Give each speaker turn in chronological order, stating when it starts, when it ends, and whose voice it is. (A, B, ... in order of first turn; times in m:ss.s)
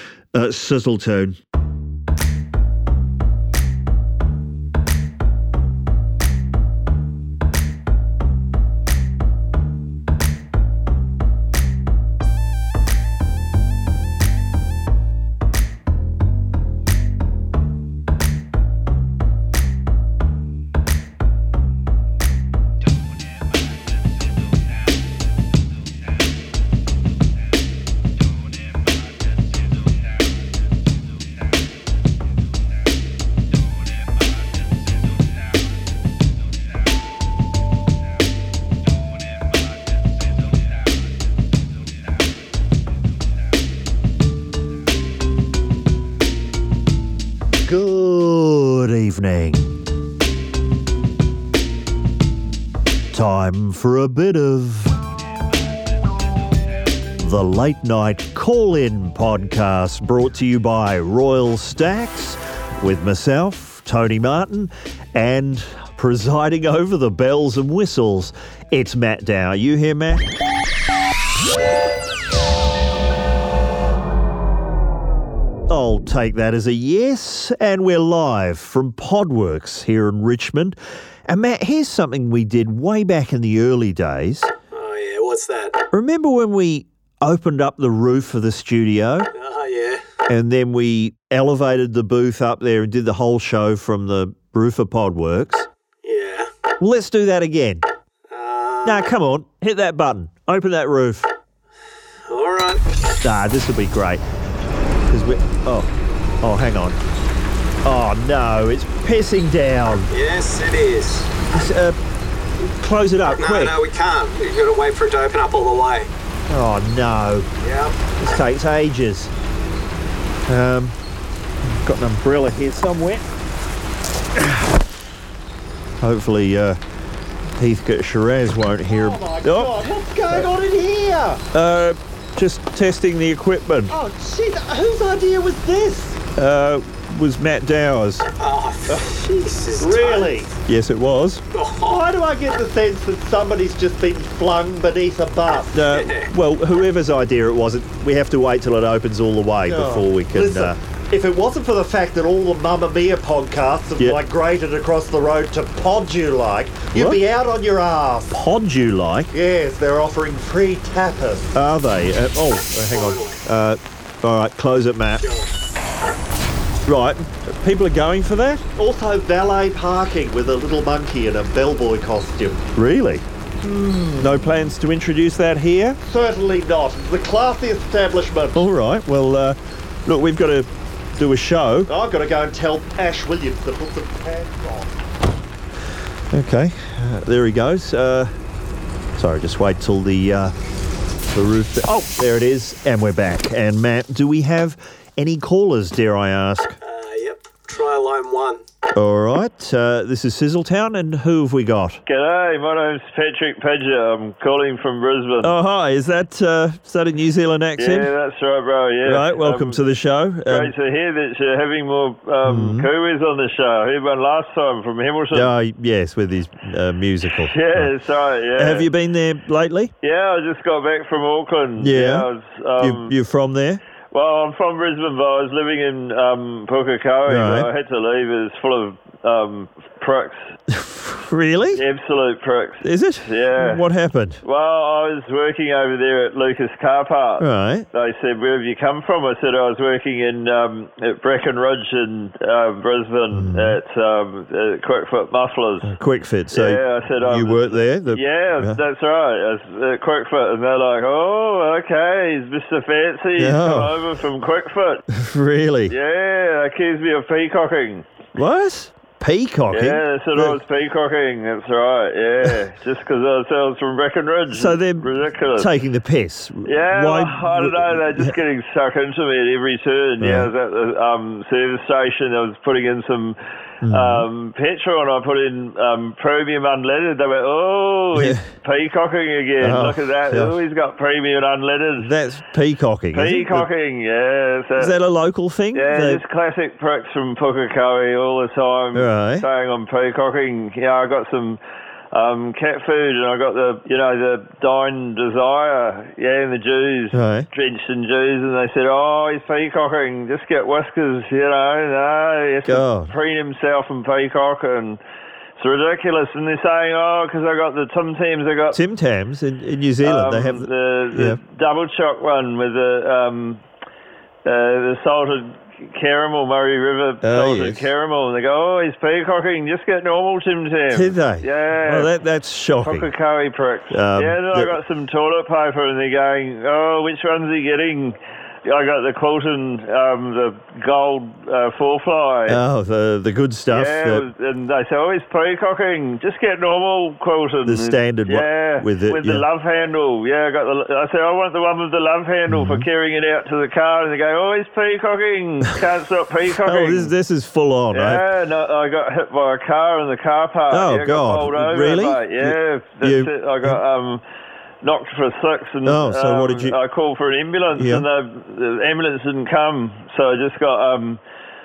0:00.3-0:01.4 A
0:47.6-0:49.7 A
0:53.1-0:55.0 A
0:57.2-1:10.2 A
1:15.7-1:24.5 A
1:24.7-1:25.8 B
1:25.9-1:29.3 A
1:29.3-1:30.0 B
1:30.3-1:35.7 A
1:36.0-1:36.5 B
1:36.8-1:37.8 A
1:38.3-1:39.1 B
1:38.8-1:41.3 A
1:42.3-1:42.8 B
1:43.2-1:44.2 A
1:45.1-1:45.9 A
1:46.4-1:47.0 A
1:47.8-1:50.1 A
1:50.1-1:51.4 B
1:51.5-1:52.0 A
1:52.8-1:53.8 A
1:53.3-1:56.1 B
1:56.5-1:57.5 A
1:57.6-1:58.0 B
1:58.2-1:59.3 A
2:00.5-2:01.0 A
2:01.7-2:03.2 A
2:06.0-2:06.8 A
2:07.6-2:09.8 A
2:08.9-2:11.4 C
2:11.5-2:13.9 A
2:13.9-2:16.2 C
2:16.4-2:18.3 A
2:18.4-2:20.4 B
2:18.9-2:20.5 C
2:20.7-2:21.4 A
2:21.5-2:22.0 B
2:21.8-2:25.8 C
2:25.7-2:30.8 A
2:25.9-2:26.3 B
2:29.6-2:38.3 C
2:34.0-2:34.2 A
2:36.9-2:37.2 A
2:38.3-2:39.3 A
2:39.3-2:41.5 C
2:41.6-2:45.2 A
2:42.9-2:43.4 B
2:45.2-2:45.5 B
2:46.9-2:48.7 A
2:48.7-2:52.7 C
2:52.7-2:53.2 A
2:53.6-2:54.5 C
2:54.2-2:56.0 A
2:56.0-2:58.6 C
2:58.6-3:01.9 A
3:01.9-3:04.9 C
3:06.3-3:08.3 A
3:09.2-3:10.6 A
3:11.3-3:16.8 A
3:16.8-3:18.6 B
3:19.0-3:22.0 A
3:22.1-3:25.5 D
3:25.4-3:28.1 A
3:27.8-3:29.8 D
3:29.1-3:30.7 A
3:30.5-3:35.5 D
3:32.4-3:32.9 A
3:35.3-3:37.9 A
3:37.4-3:38.9 D
3:38.6-3:39.9 A
3:40.0-3:43.1 D
3:41.8-3:43.8 A
3:44.1-3:50.5 D
3:47.3-3:47.7 A
3:50.7-3:51.8 A
3:51.7-3:53.8 D
3:52.8-3:54.4 A
3:54.4-4:05.9 D
3:57.4-3:57.9 A
4:03.3-4:03.8 A
4:05.8-4:08.8 A
4:06.5-4:15.0 D
4:13.4-4:14.0 A
4:15.1-4:16.0 A
4:15.9-4:18.0 D
4:18.4-4:20.6 A
4:19.7-4:25.7 D
4:24.5-4:28.3 A
4:26.7-4:33.4 D
4:30.2-4:30.5 A
4:33.8-4:34.3 A
4:33.9-4:42.1 D
4:38.1-4:38.4 A
4:39.6-4:40.6 A
4:42.0-4:43.7 A
4:43.1-4:44.9 D
4:44.8-4:46.2 A
4:45.7-4:51.6 D
4:48.9-4:49.5 A
4:52.1-5:05.0 D
4:57.1-4:57.5 A
5:02.6-5:03.1 A
5:05.6-5:08.8 D
5:08.7-5:11.4 A
5:10.0-5:13.6 D
5:14.4-5:22.1 D
5:17.2-5:17.9 A
5:20.9-5:23.1 A
5:22.8-5:32.6 D
5:23.9-5:24.7 A
5:32.5-5:34.3 A
5:33.7-5:47.1 D
5:37.7-5:39.5 A
5:42.5-5:42.9 A
5:46.6-5:48.2 A
5:47.9-5:54.2 D
5:50.7-5:53.8 A
5:54.8-6:01.2 D
5:55.8-5:56.8 A
5:57.8-5:58.0 A